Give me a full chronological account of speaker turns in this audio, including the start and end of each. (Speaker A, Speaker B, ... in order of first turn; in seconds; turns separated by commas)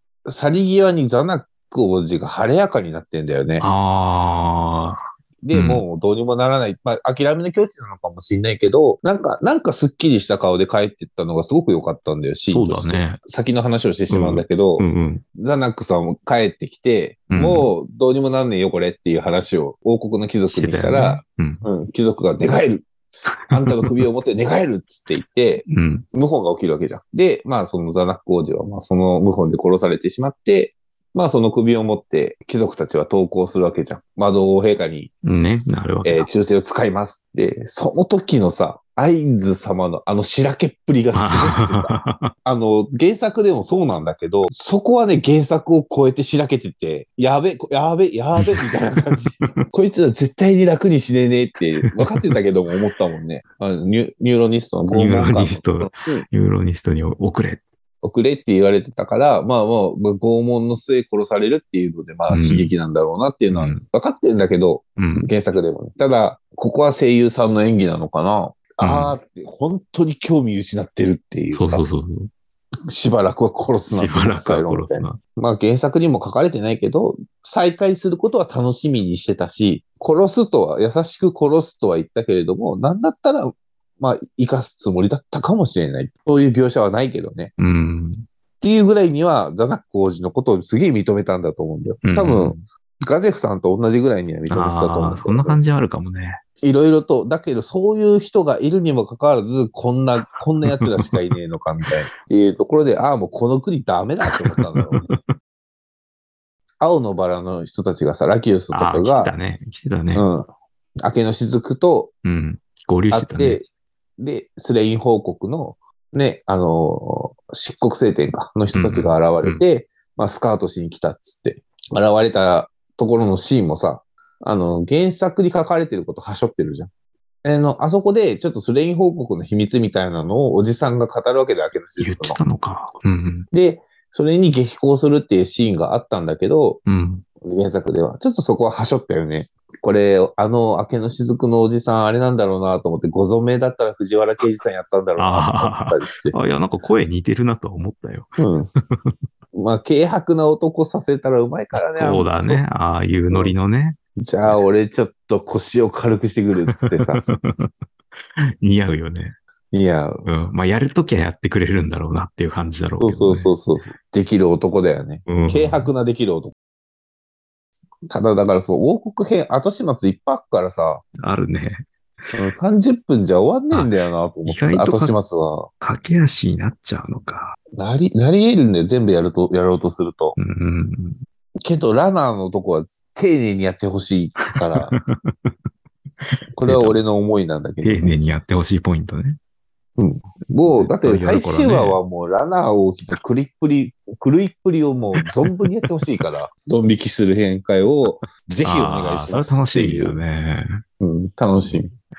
Speaker A: 0.3-3.7, Speaker B: 3.6-5.8, Speaker A: 5.4-22.9, Speaker B: 12.5-13.2, Speaker B: 14.1-15.2, Speaker B: 17.3-17.7, Speaker B: 20.5-21.6, Speaker B: 23.5-24.0, Speaker A: 23.5-35.1, Speaker B: 25.7-26.1, Speaker B: 35.2-36.3, Speaker A: 36.0-56.3, Speaker B: 41.1-42.3, Speaker B: 48.4-48.7, Speaker B: 54.9-57.6, Speaker A: 58.0-71.8, Speaker B: 62.3-62.7, Speaker B: 63.5-63.9, Speaker B: 65.0-65.3, Speaker B: 68.8-69.1, Speaker B: 71.5-72.3, Speaker A: 72.9-87.5, Speaker B: 73.9-75.2, Speaker B: 87.6-88.2, Speaker A: 88.6-95.6, Speaker B: 92.0-92.6, Speaker B: 94.5-96.4, Speaker A: 96.6-105.1, Speaker B: 100.2-101.3, Speaker B: 104.3-105.2, Speaker A: 106.8-109.3, Speaker B: 108.7-110.3, Speaker A: 110.1-110.5, Speaker A: 111.0-112.1, Speaker B: 112.2-113.6, Speaker A: 113.1-113.7, Speaker A: 114.2-126.9, Speaker B: 118.7-119.6, Speaker A: 127.4-132.4, Speaker B: 132.0-133.5, Speaker A: 133.5-136.8, Speaker B: 136.9-137.2, Speaker A: 137.4-146.3, Speaker B: 145.2-148.3, Speaker A: 148.4-148.7, Speaker A: 149.5-152.6, Speaker B: 151.7-154.6, Speaker A: 154.2-157.2, Speaker B: 156.8-157.7, Speaker B: 158.6-159.3, Speaker A: 159.7-160.2, Speaker B: 160.3-163.5, Speaker A: 163.0-166.5, Speaker B: 165.3-165.9, Speaker A: 168.1-171.0, Speaker B: 171.2-172.4, Speaker A: 172.3-175.7, Speaker B: 173.7-175.2, Speaker B: 175.8-177.6, Speaker A: 177.8-180.4, Speaker B: 180.4-181.2, Speaker A: 181.6-184.9, Speaker B: 184.4-185.5, Speaker A: 186.6-188.2, Speaker B: 186.6-187.0, Speaker B: 187.8-189.4, Speaker A: 190.0-200.2, Speaker B: 190.7-192.0, Speaker B: 198.1-200.8, Speaker A: 201.0-201.9